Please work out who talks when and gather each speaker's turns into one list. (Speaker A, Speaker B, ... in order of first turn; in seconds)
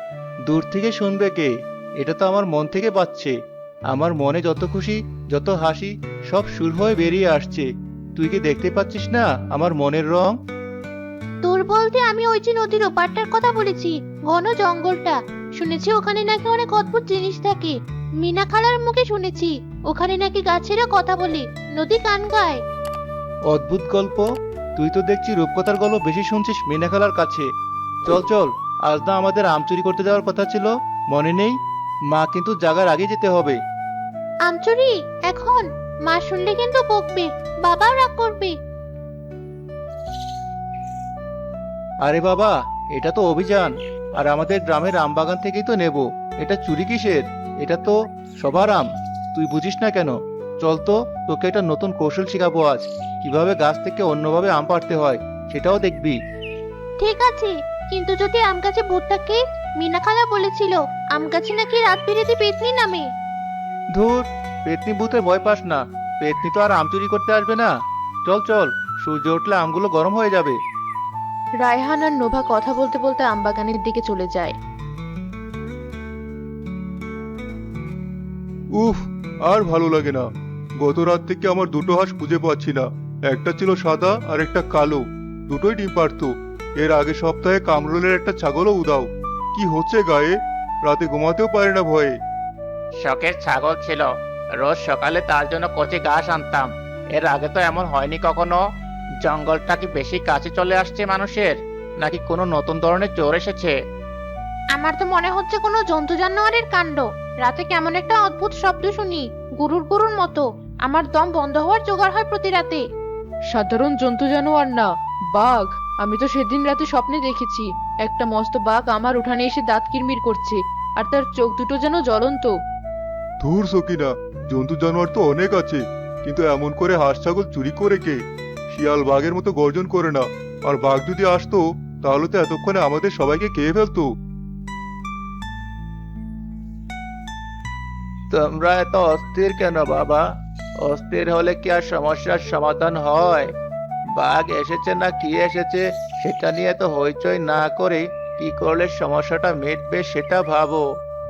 Speaker A: 0.5-3.3, 3.9-10.4, 23.5-27.5, 28.1-31.6, 32.1-33.6, 42.0-56.2, 63.9-67.7, 68.3-70.6, 138.3-140.3, 140.8-143.5, 144.2-150.8
Speaker B: 11.4-22.6, 34.5-38.6, 57.0-63.1, 104.7-112.8
Speaker C: 71.6-74.5, 113.5-122.5
Speaker D: 78.8-80.3, 80.8-92.2, 123.4-134.1
Speaker E: 93.0-98.6, 99.2-103.8